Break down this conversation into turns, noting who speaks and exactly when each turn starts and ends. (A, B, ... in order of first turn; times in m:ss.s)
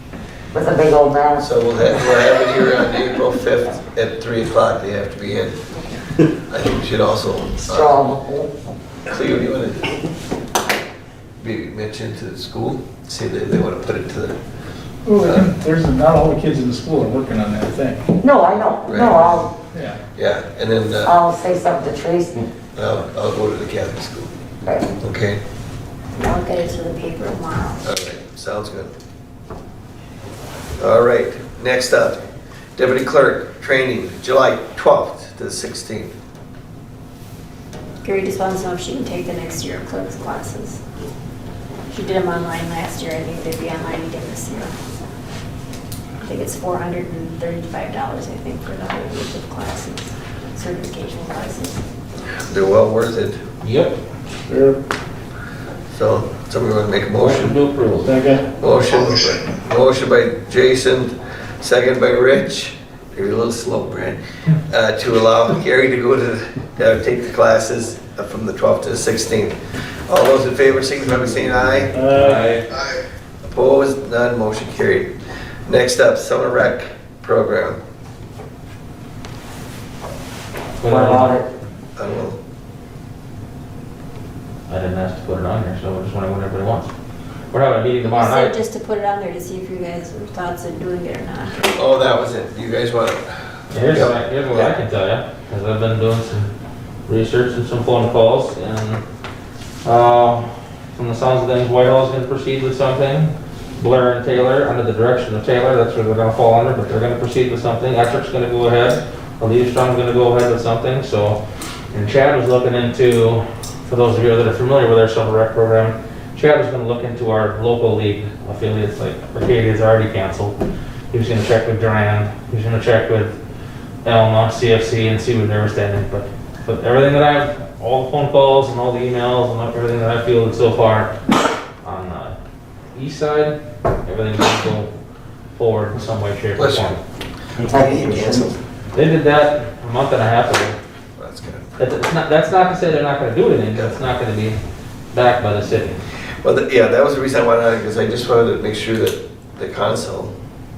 0:00.5-0:01.5 A
0:01.4-0:05.6 B
0:06.3-0:08.0 B
0:07.6-0:08.5 A
0:09.1-0:10.0 B
0:11.4-0:14.4 B
0:15.0-0:18.1 C
0:15.2-0:15.5 B
0:18.2-0:19.5 A
0:18.8-0:19.3 B
0:19.7-0:20.0 C
0:20.2-0:21.1 B
0:21.0-0:22.4 A
0:22.7-0:24.3 B
0:24.6-0:25.0 A
0:25.0-0:25.4 B
0:26.2-0:27.8 D
0:27.8-0:28.9 B
0:30.8-0:32.2 B
0:32.8-0:36.1 B
0:38.0-0:40.8 D
0:41.9-0:44.7 D
0:46.2-0:51.8 D
0:52.5-0:53.4 B
0:53.6-0:54.0 E
0:54.5-0:54.8 C
0:55.9-0:57.6 B
0:57.2-0:58.1 E
0:58.0-0:58.5 C
0:58.6-1:09.5 B
1:10.1-1:11.9 B
1:11.9-1:12.5 C
1:12.0-1:12.6 E
1:12.7-1:15.1 B
1:15.6-1:17.8 B
1:20.8-1:21.4 E
1:20.8-1:21.5 A
1:22.0-1:22.4 B
1:24.7-1:26.9 E
1:27.5-1:28.6 E
1:28.1-1:31.8 D
1:31.7-1:34.7 B
1:33.7-1:36.5 E
1:37.1-1:39.0 E
1:39.8-1:51.4 E
1:51.9-2:00.6 E
2:01.1-2:03.4 E
2:04.0-2:11.1 E
2:11.8-2:12.4 E
2:12.9-2:14.9 E
2:15.5-2:17.0 E
2:16.6-2:17.0 B
2:17.6-2:18.5 A
2:17.7-2:18.6 B
2:18.9-2:20.8 E
2:21.2-2:21.6 B
2:21.8-2:24.6 E
2:25.1-2:26.0 E
2:26.4-2:30.3 B